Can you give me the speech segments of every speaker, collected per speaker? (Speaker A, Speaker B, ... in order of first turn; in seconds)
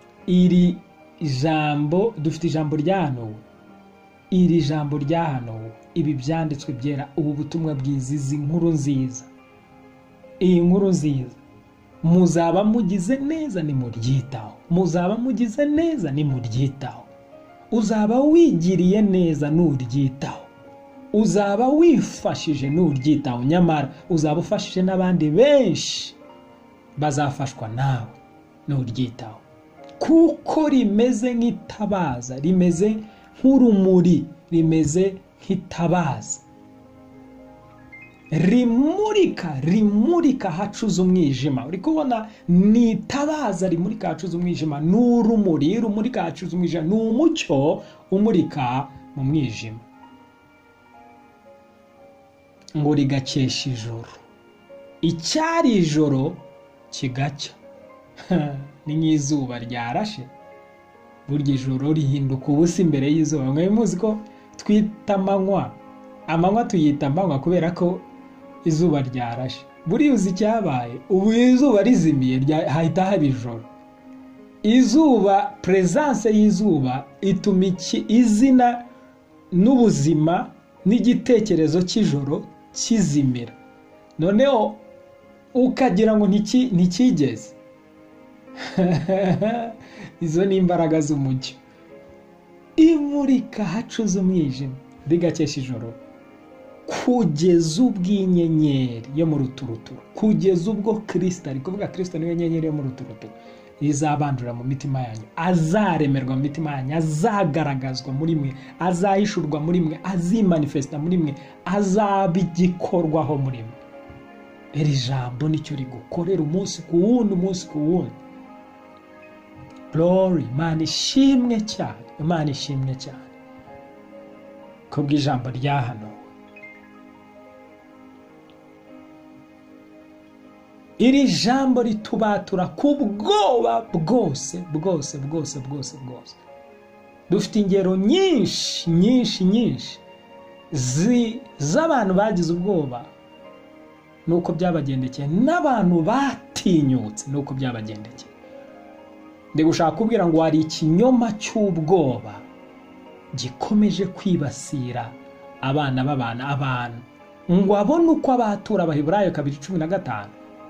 Speaker A: 0.2-3.4, 4.3-9.3, 10.4-11.4, 12.0-17.1, 17.7-20.5, 21.1-26.2, 27.0-29.4, 30.0-36.4, 38.3-49.8, 52.7-54.2, 55.0-57.6, 58.3-60.3, 61.2-68.0, 68.6-73.7, 74.6-78.9, 79.5-83.5, 84.2-84.8, 85.5-87.5, 88.6-91.6, 92.8-96.0, 96.8-113.8, 114.7-118.1, 119.9-123.3, 124.9-126.2, 131.0-136.4, 137.3-140.0, 140.7-143.1, 144.2-148.3, 149.5-152.5, 153.3-160.3